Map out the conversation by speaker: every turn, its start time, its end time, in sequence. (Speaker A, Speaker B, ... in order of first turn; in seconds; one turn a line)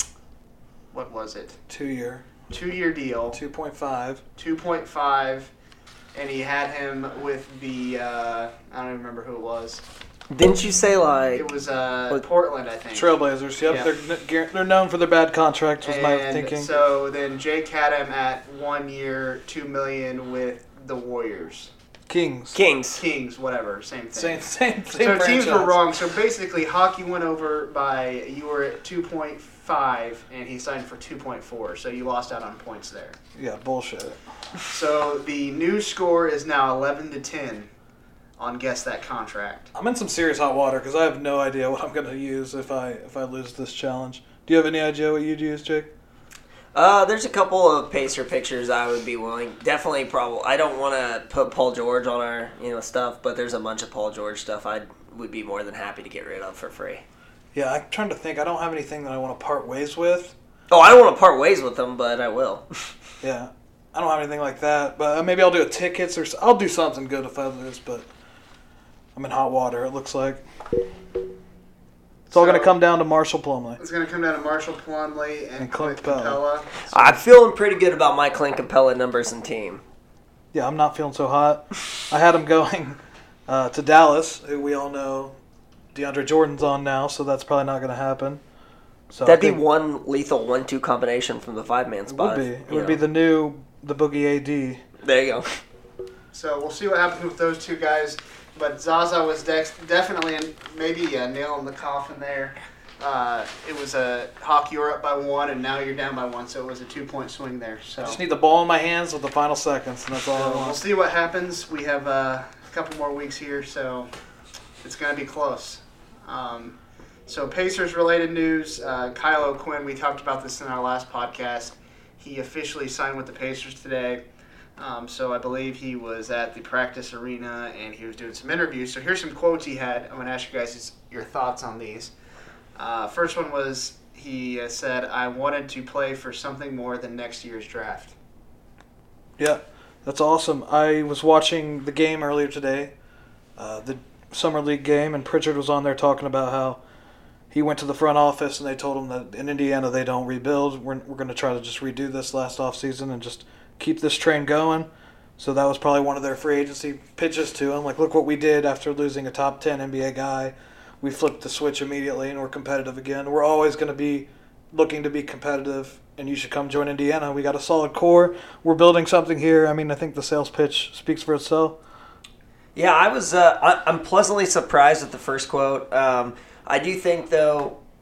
Speaker A: 0.9-1.6
Speaker B: 1.7-2.3
Speaker A: 2.5-3.4
Speaker B: 3.3-4.2
Speaker A: 4.4-5.5
Speaker A: 6.1-9.8
Speaker C: 10.3-11.5
Speaker A: 11.3-13.9
Speaker B: 12.9-16.7
Speaker A: 15.8-21.7
Speaker B: 22.1-22.6
Speaker C: 22.5-23.0
Speaker A: 22.9-33.2
Speaker B: 24.1-25.8
Speaker B: 33.4-34.2
Speaker A: 34.7-37.7
Speaker A: 38.4-39.7
Speaker B: 39.7-45.9
Speaker C: 46.7-57.0
Speaker B: 57.5-60.3
Speaker C: 60.7-62.6
Speaker B: 63.2-68.1
Speaker B: 69.1-70.4
Speaker A: 72.3-72.7
Speaker B: 72.3-73.8
Speaker A: 73.8-76.7
Speaker B: 75.6-77.2
Speaker C: 76.9-79.8
Speaker B: 80.5-85.3
Speaker B: 85.9-88.4
Speaker B: 89.1-89.6
Speaker C: 89.2-93.0
Speaker B: 92.1-94.8
Speaker C: 95.0-95.6
Speaker A: 96.3-108.2
Speaker B: 108.0-110.8
Speaker A: 110.3-114.1
Speaker A: 114.8-124.2
Speaker A: 124.8-132.1
Speaker A: 132.8-138.1
Speaker B: 139.4-142.9
Speaker B: 143.6-146.8
Speaker B: 147.5-171.8
Speaker C: 172.7-177.8